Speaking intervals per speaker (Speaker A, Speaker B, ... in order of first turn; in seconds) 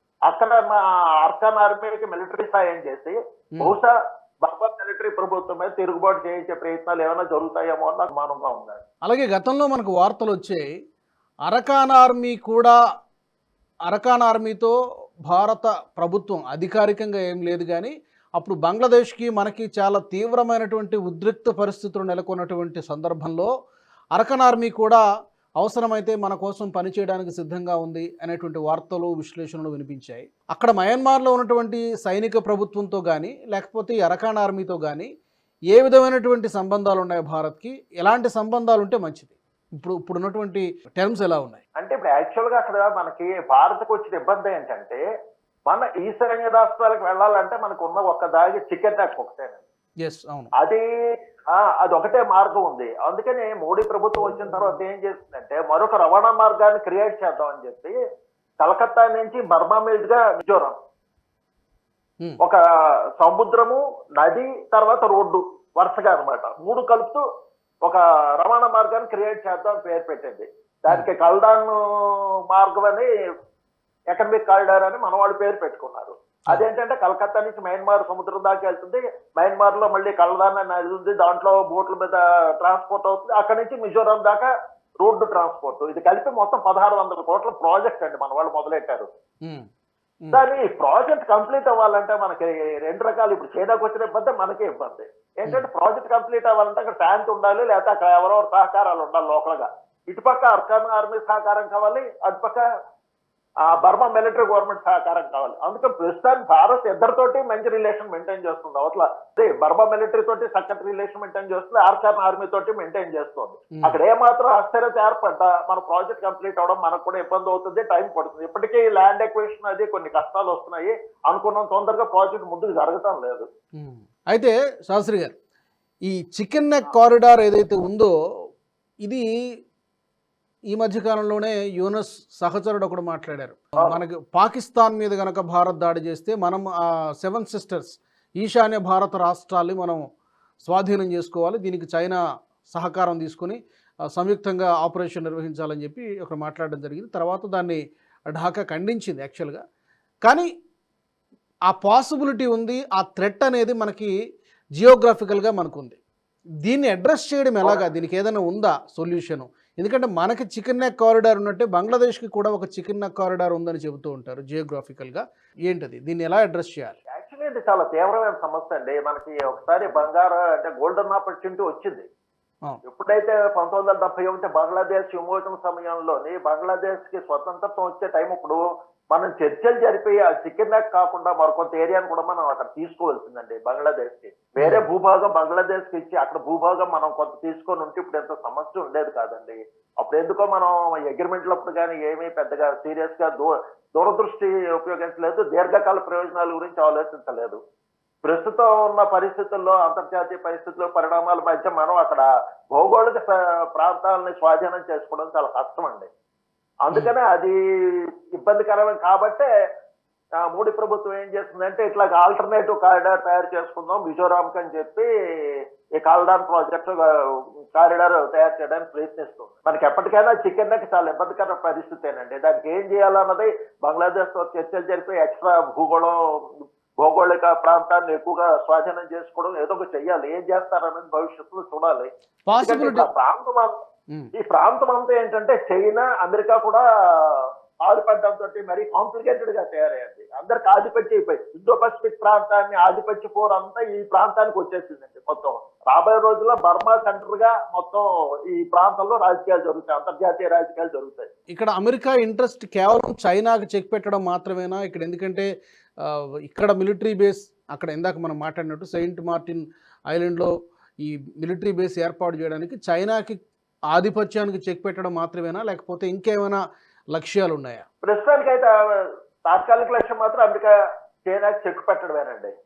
Speaker A: 0.3-3.9, 4.4-8.8, 41.8-45.0, 45.7-49.6, 50.6-50.8, 51.5-58.0, 58.6-60.8, 63.2-67.2, 67.8-73.1, 74.1-84.5, 85.0-89.1, 90.3-102.6, 103.7-123.5, 167.1-172.1, 172.8-178.6, 179.1-197.6, 198.2-206.1, 206.8-209.5, 210.4-217.0, 217.8-233.8, 234.4-251.3, 268.0-268.7, 269.5-270.7, 271.2-272.5
Speaker B: 9.1-10.7, 11.5-12.8, 13.9-14.8, 15.3-23.5, 24.2-25.0, 25.6-35.1, 35.7-41.6, 50.0-50.5, 123.8-125.3, 126.1-128.1, 130.7-136.7, 137.2-140.0, 140.6-143.6, 144.2-147.8, 148.3-149.6, 151.7-154.1, 154.8-156.0, 156.7-167.0, 184.6-184.9, 232.5-233.1, 251.5-255.5, 256.0-260.5, 261.0-263.4, 263.9-266.6, 267.1-267.8